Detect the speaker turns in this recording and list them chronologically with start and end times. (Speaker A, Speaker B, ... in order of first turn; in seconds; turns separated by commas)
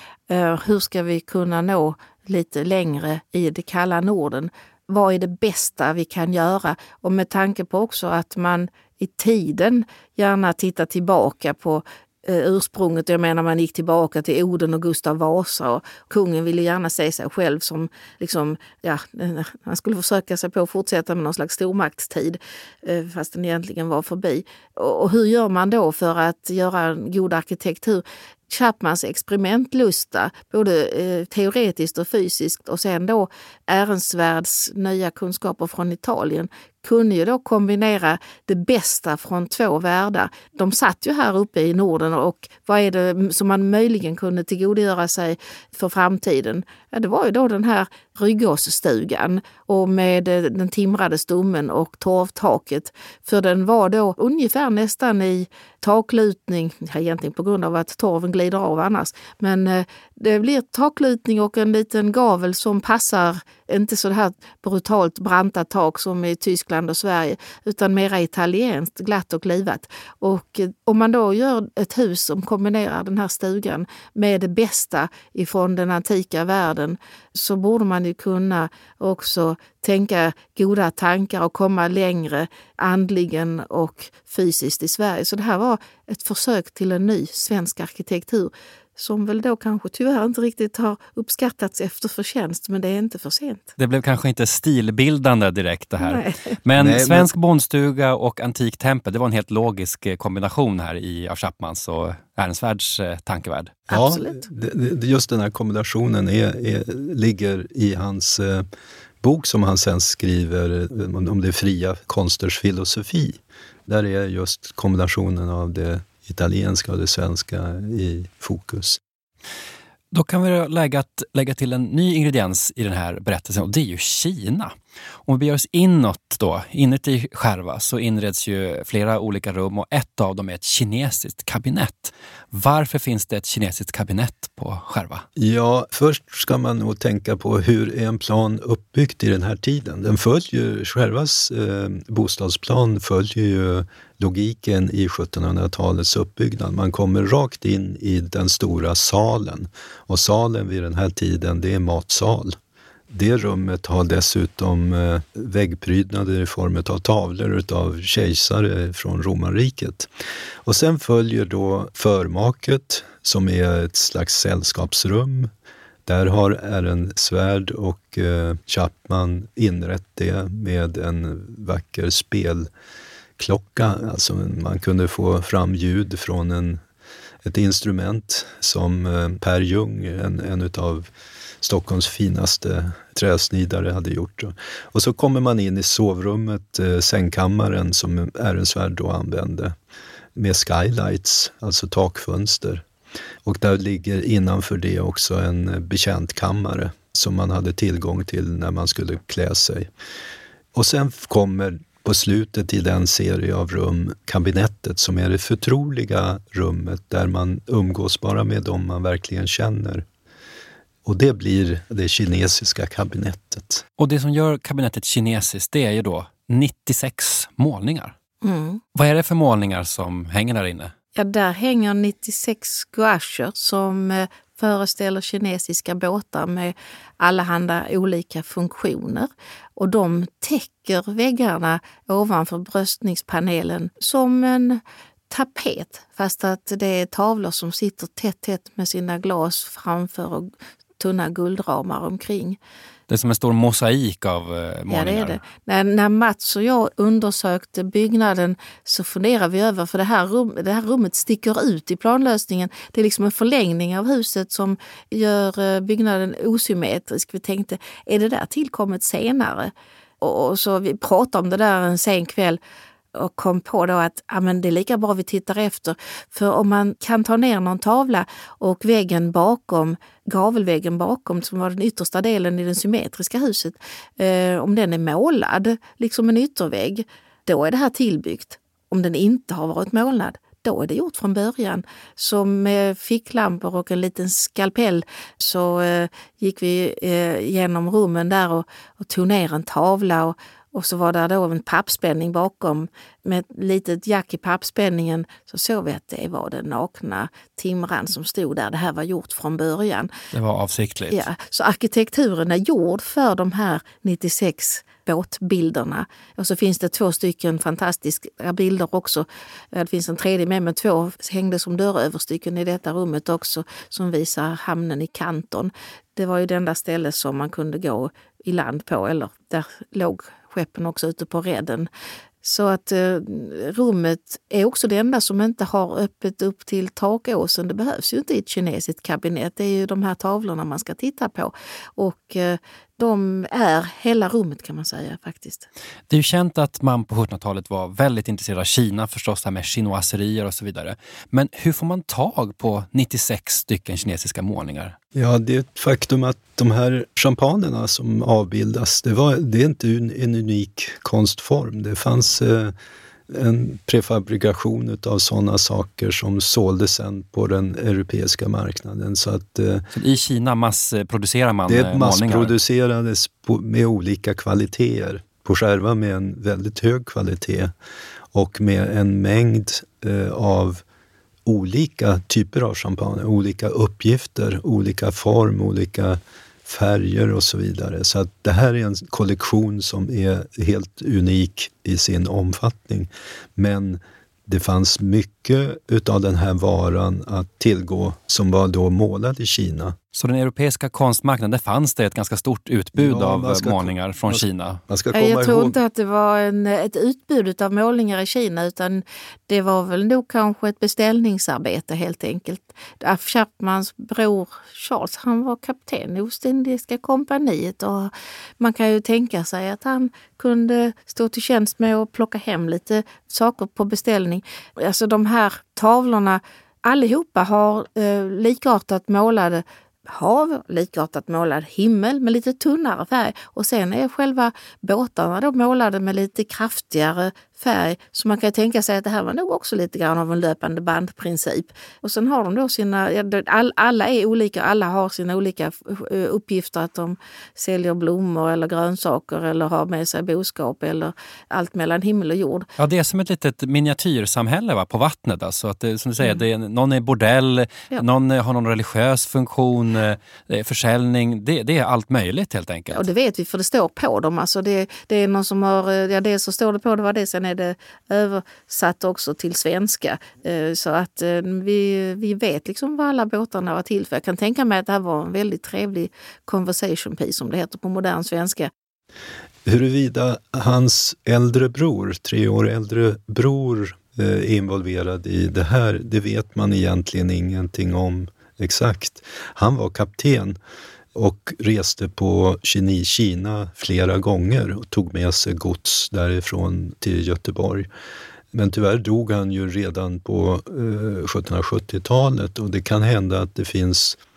Speaker A: 0.3-93.7, Speaker B: 93.8-103.8, Speaker A: 96.0-96.6, Speaker C: 96.8-97.3, Speaker A: 103.9-104.5, Speaker C: 103.9-108.7, Speaker C: 109.2-119.0, Speaker B: 120.1-124.7, Speaker B: 125.2-135.2, Speaker C: 135.3-152.6, Speaker C: 153.1-160.1, Speaker C: 160.6-165.5, Speaker C: 166.1-172.7, Speaker C: 173.4-176.8, Speaker C: 177.4-181.1, Speaker C: 181.6-189.7, Speaker C: 190.3-192.8, Speaker C: 193.4-199.9, Speaker C: 200.7-210.0, Speaker C: 211.0-213.8, Speaker B: 214.0-218.1, Speaker A: 218.4-218.8, Speaker B: 218.9-220.9, Speaker A: 221.2-242.6, Speaker B: 243.1-245.4, Speaker A: 244.9-262.6, Speaker A: 263.1-300.1, Speaker B: 300.3-301.2, Speaker A: 301.1-321.9, Speaker A: 322.4-335.6, Speaker B: 336.1-344.9, Speaker C: 345.1-352.7, Speaker C: 353.3-359.9, Speaker B: 359.9-362.5, Speaker C: 361.7-367.7, Speaker C: 368.3-370.8, Speaker C: 371.4-389.9, Speaker B: 390.1-394.8, Speaker C: 392.9-395.8, Speaker A: 395.1-442.7, Speaker B: 442.8-453.1, Speaker A: 452.9-468.7, Speaker C: 469.6-480.6, Speaker C: 481.1-487.9, Speaker C: 488.5-494.2